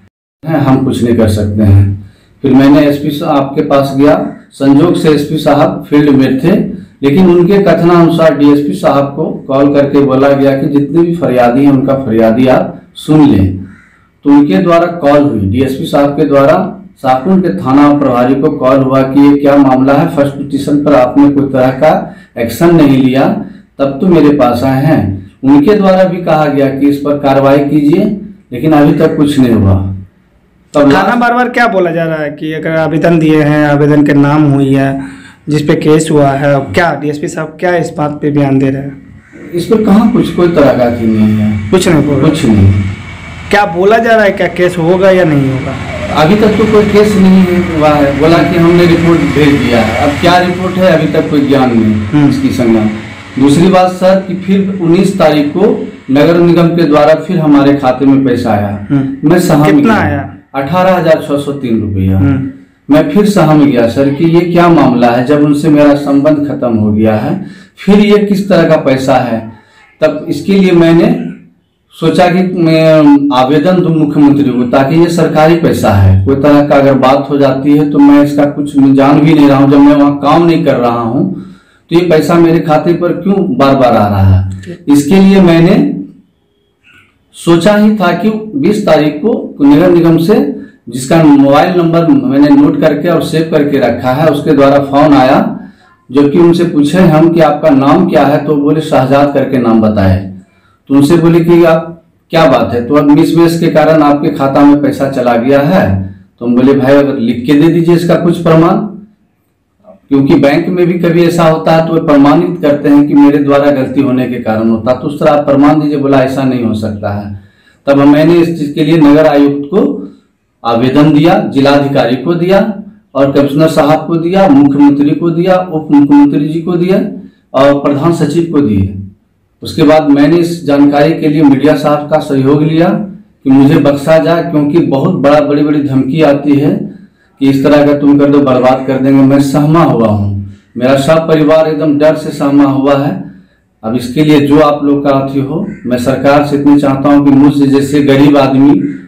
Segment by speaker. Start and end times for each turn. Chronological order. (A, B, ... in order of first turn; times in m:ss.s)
0:00.4-0:13.5 A
0:14.2-0:29.9 A
0:30.7-0:31.2 A
0:30.9-0:38.9 B
0:39.5-0:42.8 A
0:41.7-0:42.3 B
0:43.5-0:45.8 B
0:46.0-1:09.5 A
0:59.6-1:00.3 B
1:10.0-1:11.4 A
1:11.9-1:21.4 A
1:21.9-1:26.0 A
1:27.3-1:40.3 A
1:40.9-1:49.0 A
1:50.1-2:00.1 A
2:00.6-2:09.0 A
2:09.6-2:16.8 A
2:17.4-2:23.2 A
2:23.8-2:28.8 A